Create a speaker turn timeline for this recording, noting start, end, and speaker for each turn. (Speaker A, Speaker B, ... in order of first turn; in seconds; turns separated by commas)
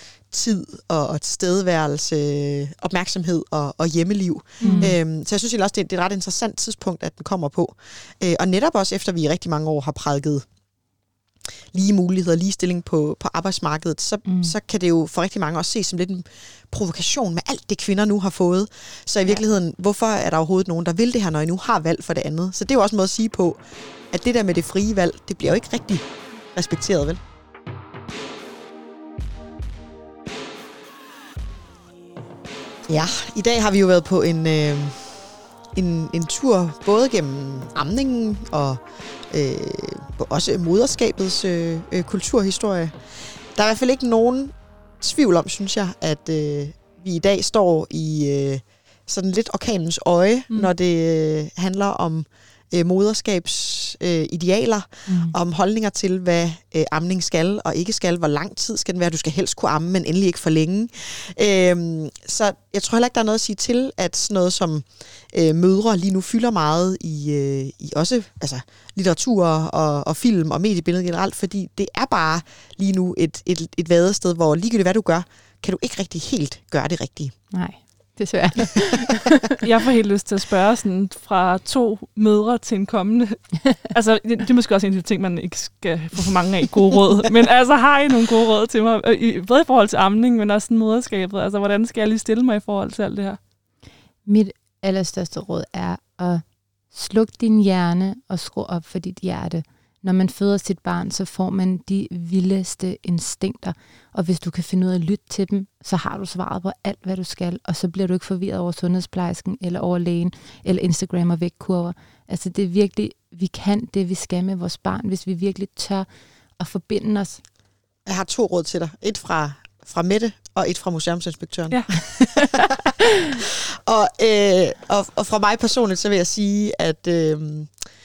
Speaker A: 0.3-10.5, Speaker B: 4.6-4.9, Speaker C: 4.6-5.0, Speaker A: 11.7-23.6, Speaker C: 14.3-14.5, Speaker A: 24.1-27.2, Speaker A: 32.9-35.2, Speaker A: 35.8-43.0, Speaker A: 43.5-77.3, Speaker C: 77.5-79.6, Speaker B: 79.6-93.4, Speaker C: 94.3-116.1, Speaker C: 116.6-117.4, Speaker A: 118.1-127.7, Speaker C: 122.3-122.6